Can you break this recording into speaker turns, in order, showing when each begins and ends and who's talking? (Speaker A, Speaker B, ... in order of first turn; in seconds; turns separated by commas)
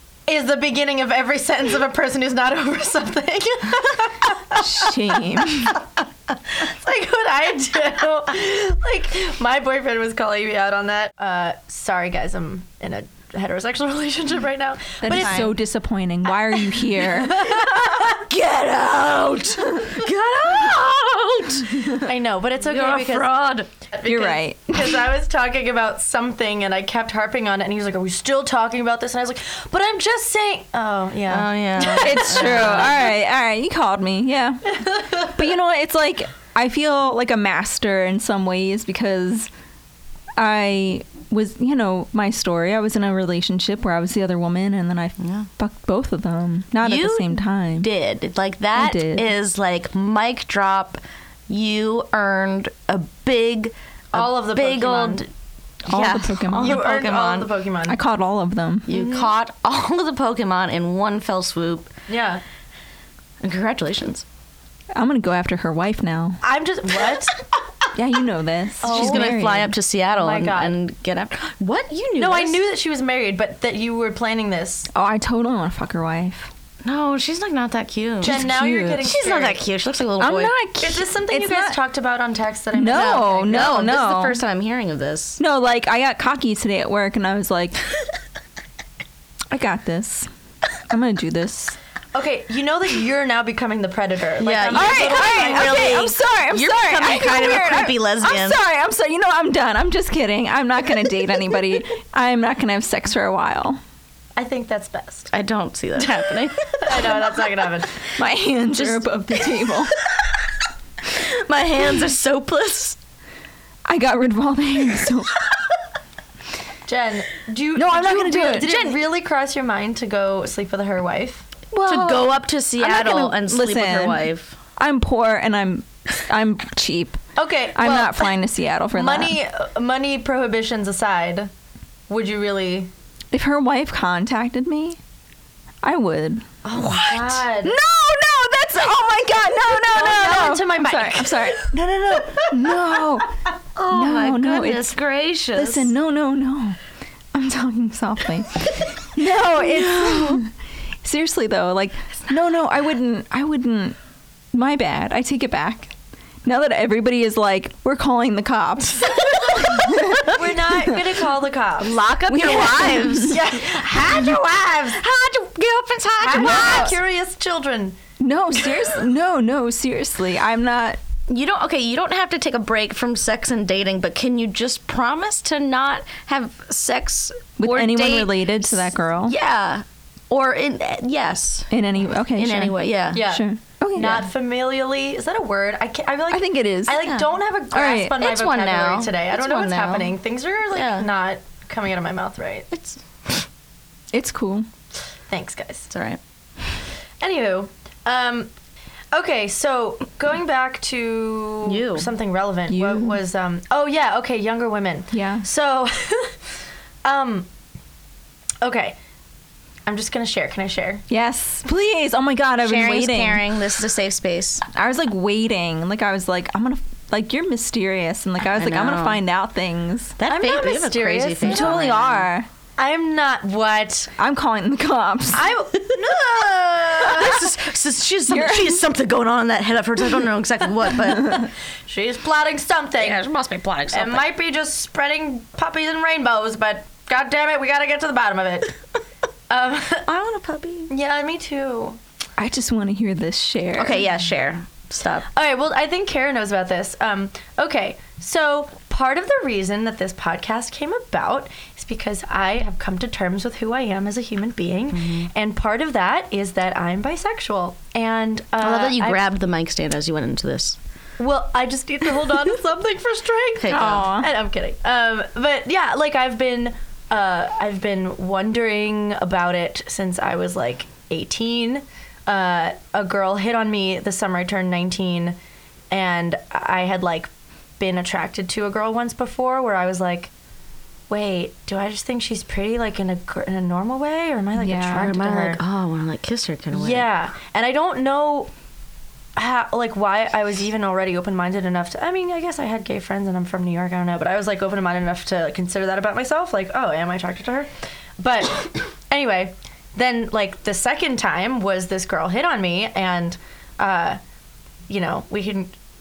Speaker A: 0.3-4.9, Speaker B: 4.5-5.8, Speaker A: 6.5-15.5, Speaker B: 15.0-17.7, Speaker C: 15.1-15.5, Speaker A: 17.0-18.2, Speaker C: 17.7-22.0, Speaker A: 22.0-23.4, Speaker C: 22.6-23.7, Speaker A: 23.9-33.0, Speaker B: 24.0-25.1, Speaker C: 31.3-33.0, Speaker B: 31.9-39.5, Speaker A: 34.9-35.3, Speaker B: 40.4-47.9, Speaker C: 45.2-45.5, Speaker C: 46.8-55.3, Speaker B: 48.7-49.3, Speaker A: 54.1-55.2, Speaker B: 55.9-56.9, Speaker C: 55.9-57.5, Speaker A: 56.5-58.0, Speaker B: 57.9-58.9, Speaker C: 58.9-61.9, Speaker A: 58.9-59.3, Speaker A: 62.1-62.4, Speaker C: 63.4-64.2, Speaker B: 64.9-66.4, Speaker A: 66.4-67.3, Speaker B: 67.9-69.8, Speaker A: 68.8-69.3, Speaker C: 68.8-72.6, Speaker A: 70.1-70.8, Speaker A: 72.2-74.9, Speaker B: 74.9-76.5, Speaker C: 76.8-80.5, Speaker B: 78.2-79.1, Speaker A: 78.2-79.6, Speaker B: 80.2-81.4, Speaker A: 80.8-83.7, Speaker C: 81.3-81.8, Speaker B: 82.7-84.4, Speaker C: 82.9-85.4, Speaker B: 85.4-87.8, Speaker B: 89.5-90.3, Speaker B: 90.9-91.8, Speaker A: 92.1-96.0, Speaker C: 94.4-98.6, Speaker B: 94.7-103.8, Speaker A: 104.4-105.3, Speaker C: 105.3-107.3, Speaker A: 106.0-108.0, Speaker B: 108.1-110.0, Speaker C: 111.0-113.0, Speaker B: 113.8-115.4, Speaker A: 116.9-121.5, Speaker B: 117.7-118.8, Speaker C: 118.6-119.0, Speaker B: 121.7-127.2, Speaker C: 121.8-124.5, Speaker A: 127.4-128.3, Speaker B: 127.7-129.3, Speaker A: 128.9-131.5, Speaker A: 132.1-132.9, Speaker B: 133.3-135.0, Speaker B: 135.8-144.9, Speaker A: 136.6-137.8, Speaker A: 139.9-141.6, Speaker C: 143.8-145.9, Speaker B: 145.5-146.8, Speaker B: 147.3-150.5, Speaker C: 149.6-150.4, Speaker B: 151.0-153.9, Speaker B: 154.5-155.9, Speaker B: 156.4-161.1, Speaker A: 160.2-164.3, Speaker C: 161.8-166.9, Speaker B: 162.3-163.4, Speaker A: 166.2-168.0, Speaker B: 166.3-166.9, Speaker B: 168.2-171.0, Speaker C: 171.3-181.7, Speaker B: 177.6-179.3, Speaker B: 181.7-184.3, Speaker C: 182.3-183.3, Speaker A: 183.1-192.7, Speaker B: 186.3-187.1, Speaker C: 187.0-190.2, Speaker C: 190.7-191.1, Speaker C: 192.7-193.0, Speaker B: 194.1-194.7, Speaker A: 195.3-195.9, Speaker C: 195.9-196.2, Speaker A: 197.2-198.5, Speaker A: 199.1-206.3, Speaker C: 201.6-202.1, Speaker B: 202.7-203.2, Speaker B: 205.1-205.4, Speaker A: 207.0-207.5, Speaker A: 208.6-209.0, Speaker A: 209.8-211.0, Speaker B: 211.1-213.5, Speaker C: 212.6-214.7, Speaker B: 214.7-220.2, Speaker C: 218.4-219.2, Speaker C: 220.2-222.3, Speaker A: 220.3-221.8, Speaker B: 221.4-222.5, Speaker A: 222.8-224.1, Speaker B: 224.2-225.5, Speaker A: 225.3-227.5, Speaker C: 226.9-231.5, Speaker B: 228.3-228.8, Speaker A: 231.9-233.2, Speaker C: 233.0-234.3, Speaker A: 233.9-238.8, Speaker A: 239.5-240.1, Speaker C: 240.1-240.9, Speaker A: 240.9-242.0, Speaker B: 242.4-244.0, Speaker C: 243.8-245.2, Speaker A: 245.3-259.2, Speaker C: 254.9-255.3, Speaker C: 258.6-260.8, Speaker A: 261.2-275.4, Speaker C: 263.6-264.1, Speaker B: 263.7-264.3, Speaker A: 275.9-280.3, Speaker A: 281.1-285.6, Speaker B: 284.6-285.1, Speaker C: 284.9-287.1, Speaker A: 286.7-288.5, Speaker A: 289.4-304.2, Speaker A: 304.9-305.7